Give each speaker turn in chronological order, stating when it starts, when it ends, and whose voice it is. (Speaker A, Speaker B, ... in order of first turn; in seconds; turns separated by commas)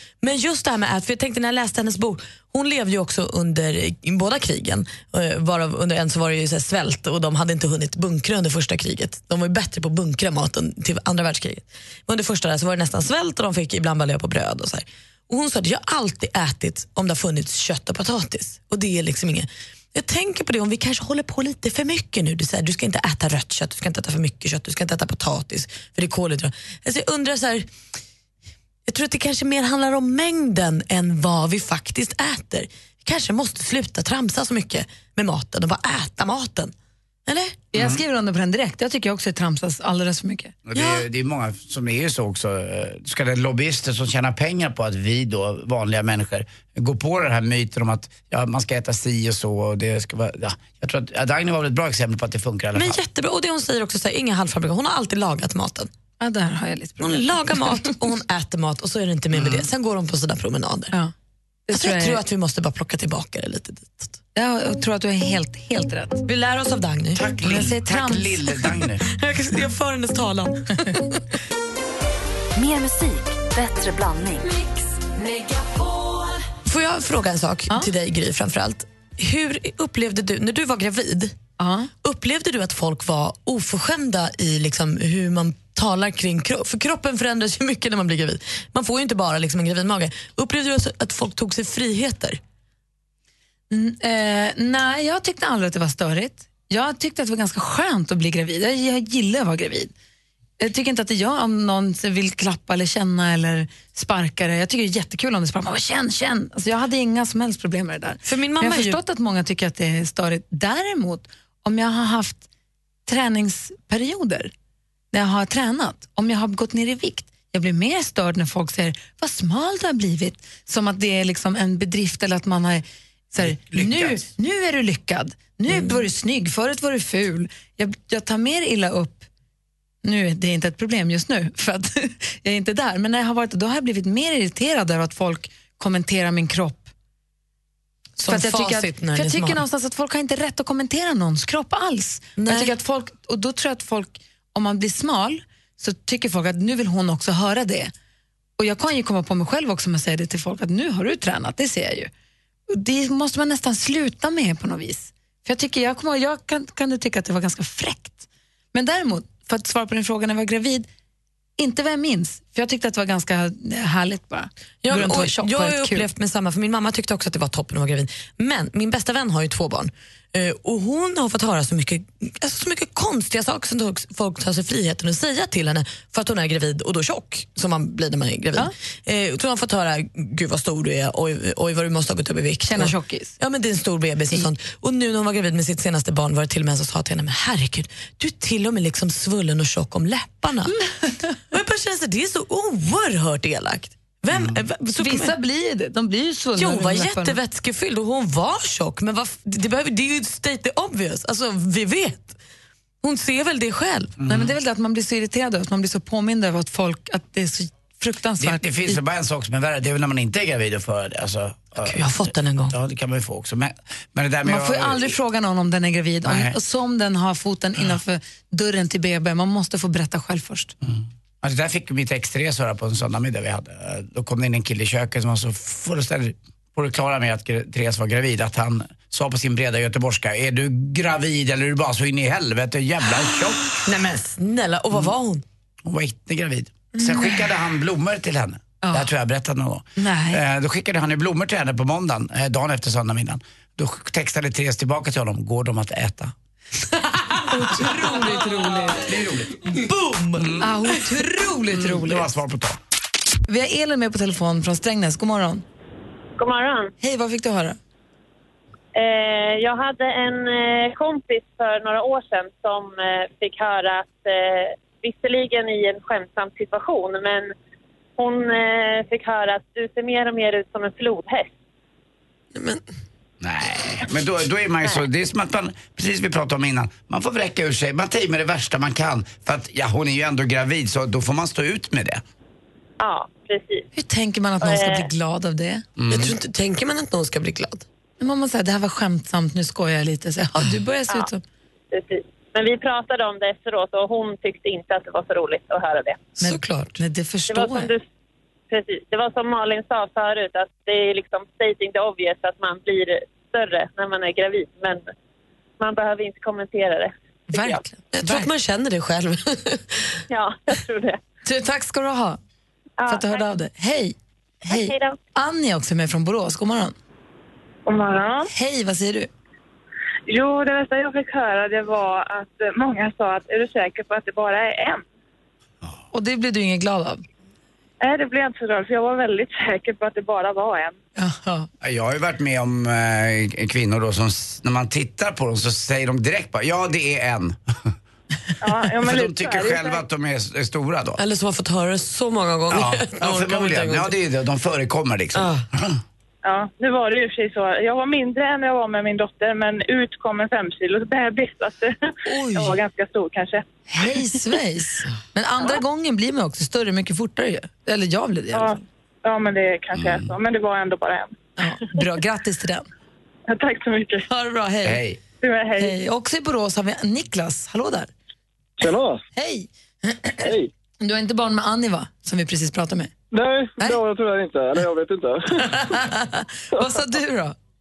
Speaker A: 0.2-27.7, Speaker A: 28.9-36.7, Speaker A: 37.2-37.6, Speaker B: 37.7-40.5, Speaker C: 37.7-38.0, Speaker C: 40.6-53.0, Speaker A: 40.7-41.0, Speaker A: 52.7-55.9, Speaker B: 56.2-57.4, Speaker A: 57.0-60.9, Speaker C: 59.3-59.7, Speaker B: 61.7-62.2, Speaker A: 61.7-64.2, Speaker B: 64.3-66.2, Speaker A: 66.3-67.2, Speaker C: 67.1-69.0, Speaker B: 67.4-68.4, Speaker A: 69.1-70.7, Speaker D: 72.5-74.6, Speaker D: 75.3-76.2, Speaker A: 76.7-81.3, Speaker B: 81.6-81.9, Speaker A: 82.0-92.4, Speaker B: 93.7-99.9, Speaker B: 100.6-112.4, Speaker A: 108.2-109.0, Speaker B: 113.0-114.5, Speaker B: 115.1-129.3, Speaker C: 123.4-124.3, Speaker B: 130.0-136.9, Speaker A: 138.2-139.6, Speaker B: 138.3-147.9, Speaker A: 142.4-142.7, Speaker B: 148.6-152.1, Speaker B: 152.7-158.2, Speaker B: 158.7-160.9, Speaker B: 161.6-166.1, Speaker A: 164.8-190.7, Speaker B: 182.7-183.4, Speaker A: 191.5-195.3, Speaker C: 194.3-194.6, Speaker B: 195.0-197.4, Speaker A: 196.6-202.3, Speaker A: 203.0-204.1, Speaker C: 204.2-204.5, Speaker B: 204.3-209.0, Speaker C: 208.4-215.1, Speaker A: 211.8-212.8, Speaker B: 214.4-220.7, Speaker C: 216.2-216.5, Speaker C: 220.8-233.8, Speaker A: 233.8-235.4, Speaker C: 235.8-246.3, Speaker B: 236.9-237.5, Speaker B: 238.8-239.1, Speaker B: 240.0-240.4, Speaker B: 247.5-249.1, Speaker C: 249.0-249.6, Speaker C: 250.3-250.7, Speaker B: 250.6-252.4, Speaker C: 251.7-252.8, Speaker B: 253.5-255.6, Speaker E: 256.4-256.9, Speaker B: 257.0-257.8, Speaker E: 258.9-267.5, Speaker E: 268.2-271.5, Speaker A: 272.5-272.8, Speaker C: 273.4-282.2, Speaker E: 283.0-283.8, Speaker B: 283.9-285.8, Speaker E: 284.6-285.1, Speaker C: 286.0-286.4, Speaker A: 286.1-287.8, Speaker B: 288.2-291.4, Speaker E: 291.9-296.3, Speaker A: 296.4-297.0, Speaker B: 296.4-297.9, Speaker E: 297.5-298.0, Speaker E: 298.7-305.1, Speaker E: 305.8-307.8, Speaker B: 307.5-308.5, Speaker A: 308.1-310.2, Speaker E: 310.3-311.1, Speaker B: 311.4-312.4, Speaker B: 313.1-314.1, Speaker B: 314.7-316.9, Speaker F: 317.9-318.4, Speaker B: 318.5-319.3, Speaker F: 320.3-325.0, Speaker B: 326.1-327.2, Speaker F: 328.0-330.9, Speaker B: 331.2-331.7, Speaker C: 331.8-337.9, Speaker F: 338.6-340.0, Speaker C: 338.9-341.2, Speaker A: 341.2-344.1, Speaker C: 342.7-346.0, Speaker A: 345.3-345.6, Speaker F: 346.4-351.9, Speaker B: 352.3-352.8, Speaker F: 352.5-353.6, Speaker B: 353.9-358.8, Speaker F: 358.5-361.3, Speaker C: 359.9-360.3, Speaker B: 361.6-362.9, Speaker F: 363.5-364.2, Speaker B: 364.3-365.0, Speaker C: 364.8-365.2, Speaker F: 365.4-365.9, Speaker B: 365.8-368.1, Speaker G: 368.8-369.2, Speaker B: 369.4-373.1, Speaker G: 370.4-370.7, Speaker G: 373.3-376.0, Speaker B: 375.6-377.5